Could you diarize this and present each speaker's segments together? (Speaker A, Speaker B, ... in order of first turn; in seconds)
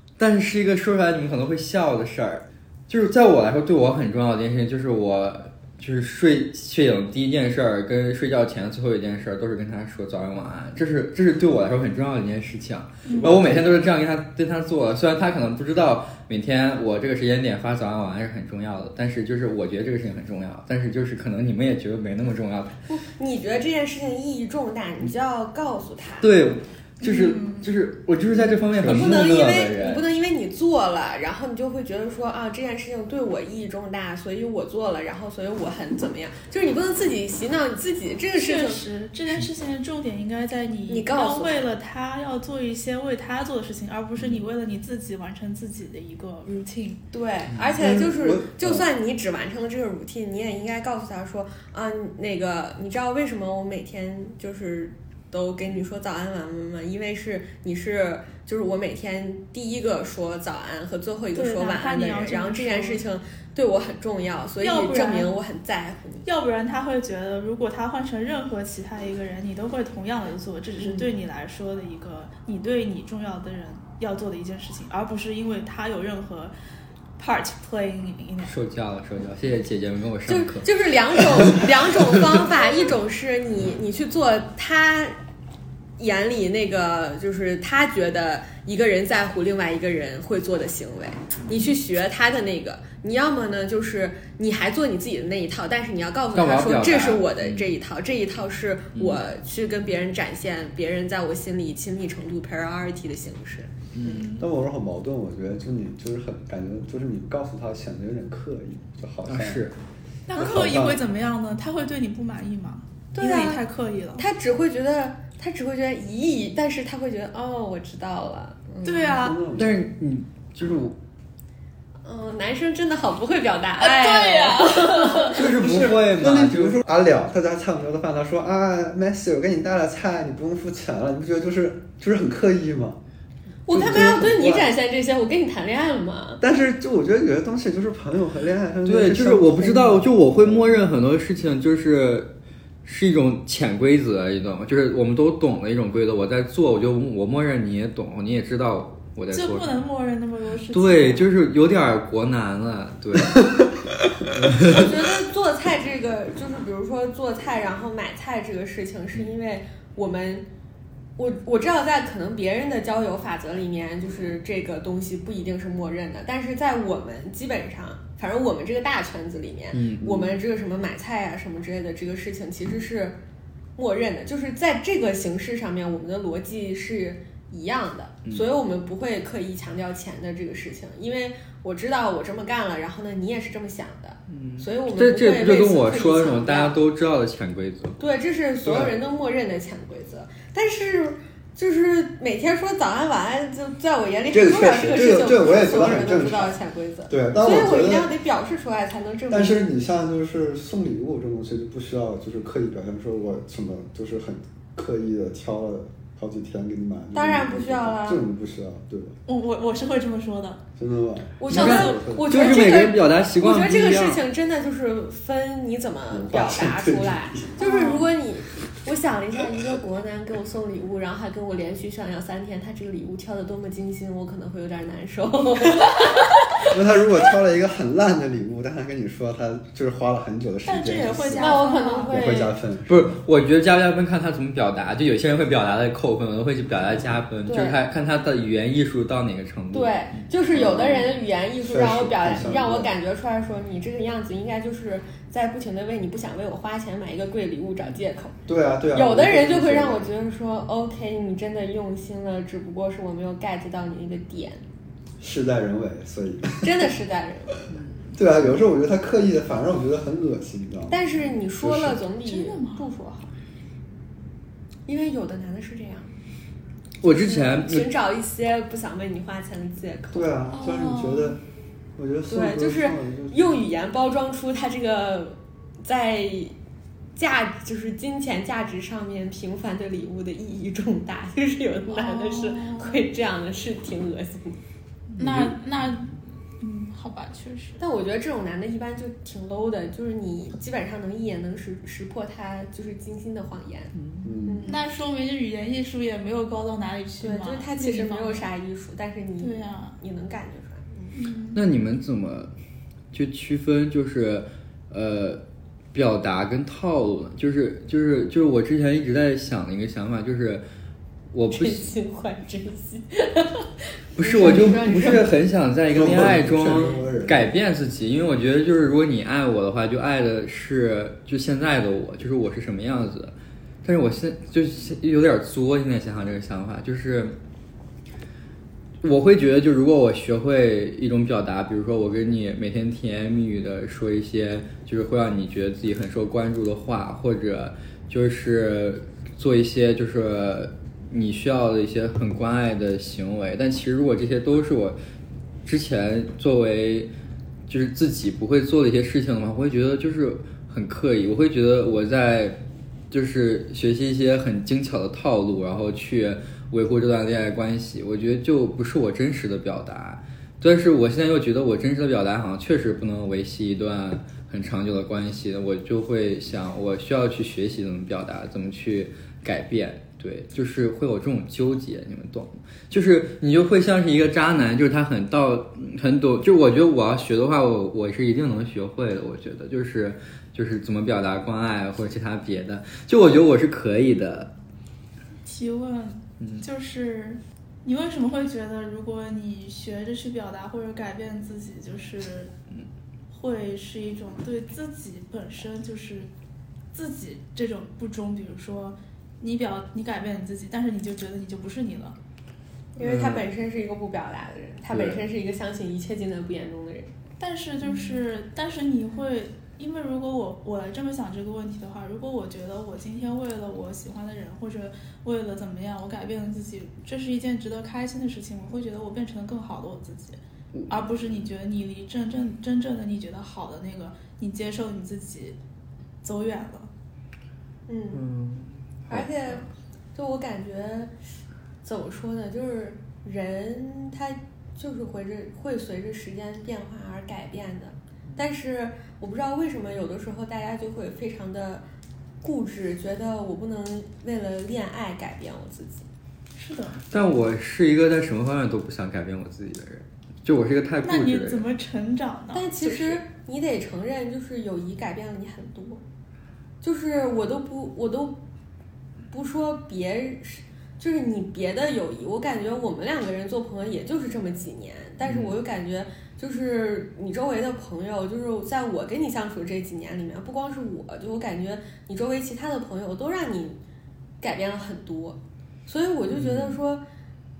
Speaker A: 0.2-22.8, 26.2-30.0, 78.4-82.1, 96.3-97.7, 99.0-99.2, 103.9-104.3, 109.2-109.7, 119.5-121.0, 125.3-126.8, 138.8-142.3, 142.8-149.8, 150.7-153.6, 154.3-154.9, 169.7-170.4, 184.3-188.0, 194.7-195.1, 211.5-214.2, 232.9-239.9, 267.0-267.9, 285.2-285.9, 293.9-294.4, 301.5-302.5, 303.1-305.4, 305.9-310.6, 311.3-311.9, 314.2-327.3, 329.0-345.0, 345.6-347.1, 347.7-352.6, 353.1-384.5, 386.4-386.6, 403.0-403.4, 404.9-405.2, 407.9-408.1, 428.1-429.6, 447.1-451.7, 465.2-465.6, 476.3-476.8
Speaker B: 13.0-13.3, 27.0-27.7, 38.3-47.0, 61.3-63.0, 64.6-65.4, 66.2-76.5, 77.2-78.5, 104.0-104.5, 110.3-114.2, 118.8-119.4, 123.8-125.4, 149.3-151.2, 209.2-210.6, 211.5-211.9, 217.6-218.1, 230.7-232.2, 262.2-262.9, 270.5-271.4, 281.9-283.1, 285.2-287.8, 294.6-298.4, 299.4-300.0, 301.1-301.6, 385.4-392.5, 393.3-396.3, 396.9-402.1, 407.4-420.4, 420.9-425.6, 426.2-426.9, 446.5-447.0, 451.0-453.2
Speaker C: 13.2-13.9, 28.8-29.2, 47.8-48.8, 104.3-109.7, 110.3-111.0, 119.1-119.8, 125.5-133.0, 133.7-134.7, 136.4-140.9, 188.6-188.9, 194.3-196.6, 197.1-198.1, 199.3-209.2, 210.8-212.5, 216.1-217.5, 226.7-233.2, 240.5-242.9, 248.5-250.1, 255.2-256.9, 258.1-261.0, 261.5-262.0, 270.1-271.4, 272.0-273.5, 285.2-285.5, 294.2-294.7, 315.9-317.5
Speaker D: 22.9-26.3, 28.8-38.8, 40.9-41.6, 47.1-66.2, 70.8-71.1, 80.3-85.2, 86.0-104.1, 113.1-113.6, 114.2-119.2, 122.0-125.6, 133.7-136.4, 154.6-160.5, 161.2-173.2, 173.8-186.8, 188.0-199.6, 207.1-208.2, 211.4-226.7, 231.3-232.5, 237.5-237.8, 239.7-248.3, 248.9-254.6, 256.6-257.5, 260.9-263.3, 264.9-266.1, 267.0-270.4, 272.3-276.6, 277.1-284.6, 287.8-293.9, 294.4-294.8, 297.2-301.1, 311.5-315.3, 402.9-407.1, 427.9-428.2, 429.1-429.6, 430.1-431.1, 431.8-441.8, 442.4-446.1, 452.5-456.0, 456.8-458.4, 459.3-473.8, 474.4-477.0